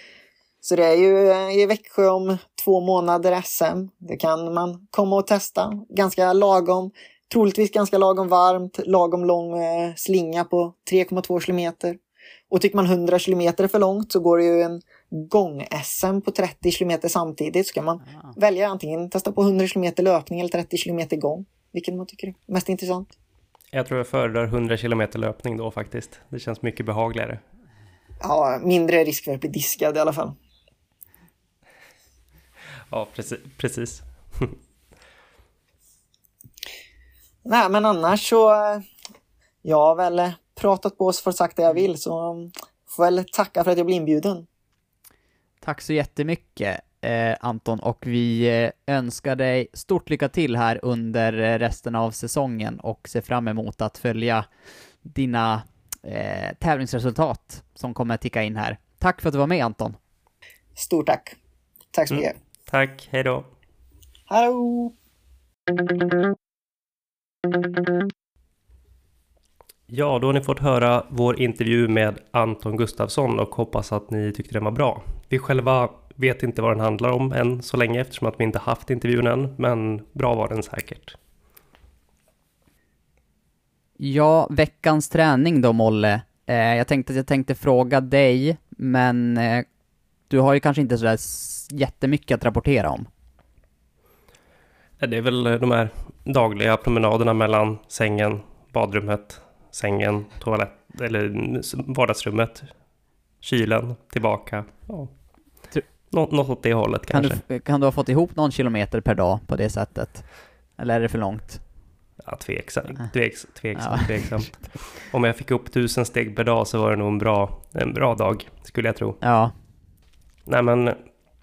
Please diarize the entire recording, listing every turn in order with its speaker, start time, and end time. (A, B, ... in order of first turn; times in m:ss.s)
0:00.6-0:12.0 A
0:12.5-0:23.1 A
0:23.7-0:27.4 B
0:28.2-0:30.3 A
0:32.9-0:34.5 B
0:37.4-0:38.8 A
0:39.6-0:44.4 A
0:45.6-0:54.5 C
0:55.0-1:00.0 C
1:00.8-1:01.4 A
1:01.9-1:02.4 A
1:02.1-1:03.4 B
1:04.3-1:04.9 A
1:09.9-1:21.2 B
1:24.0-1:29.6 C
1:30.3-1:33.1 C
1:35.0-1:42.7 B
1:43.4-1:45.1 B
1:46.1-1:47.4 B
1:47.1-1:50.2 C
1:50.8-1:51.6 C
1:52.2-1:59.2 B
1:53.8-1:54.5 C
1:59.2-1:59.5 C
2:00.4-2:01.0 B